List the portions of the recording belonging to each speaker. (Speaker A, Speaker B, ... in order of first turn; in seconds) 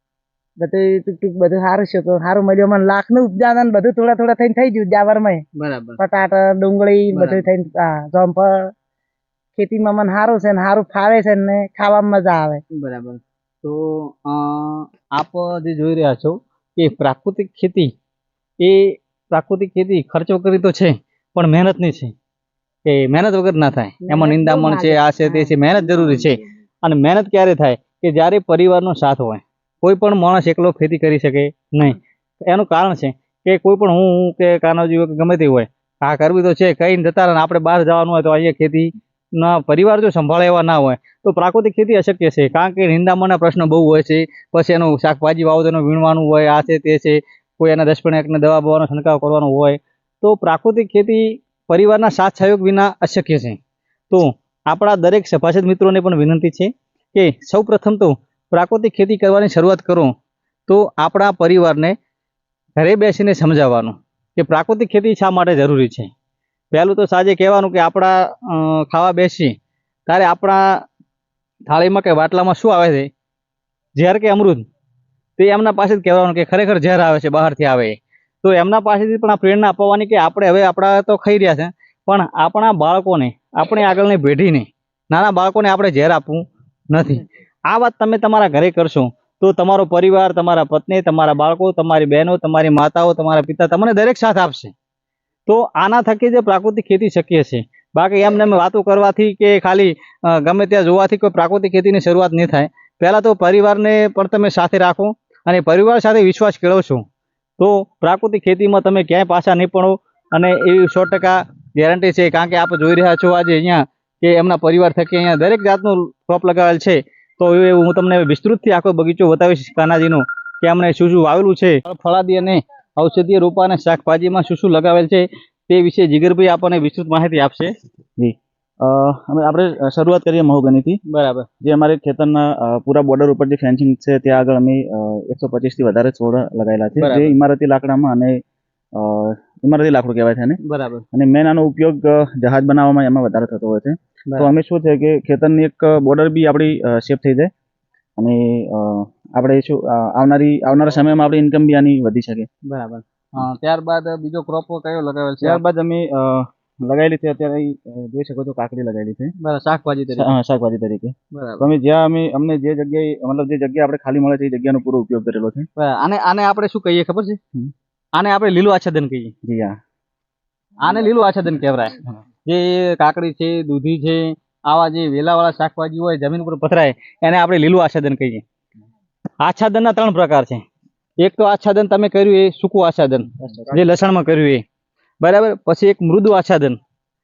Speaker A: 0.6-5.4, 6.0-8.6, 9.6-12.6, 24.0-25.6
Speaker B: 5.6-6.0, 7.1-7.5, 12.8-17.9, 18.6-22.1, 22.9-32.0, 32.5-53.6, 54.1-60.1, 60.7-61.9, 62.8-66.1, 66.7-69.5, 70.1-70.8, 71.7-73.1, 74.0-74.7, 75.4-94.7, 95.5-107.0, 107.6-127.7, 131.1-131.5, 137.0-137.3, 140.6-141.0, 152.7-155.6, 159.4-160.3, 161.3-161.7, 165.8-167.4, 168.2-169.3, 170.8-178.4, 179.4-180.6, 181.2-184.6, 185.2-186.8
Speaker C: 128.2-131.0, 131.6-138.4, 138.9-140.6, 141.1-147.5, 148.2-152.5, 155.4-159.3, 160.1-165.7, 169.4-169.8, 183.4-183.8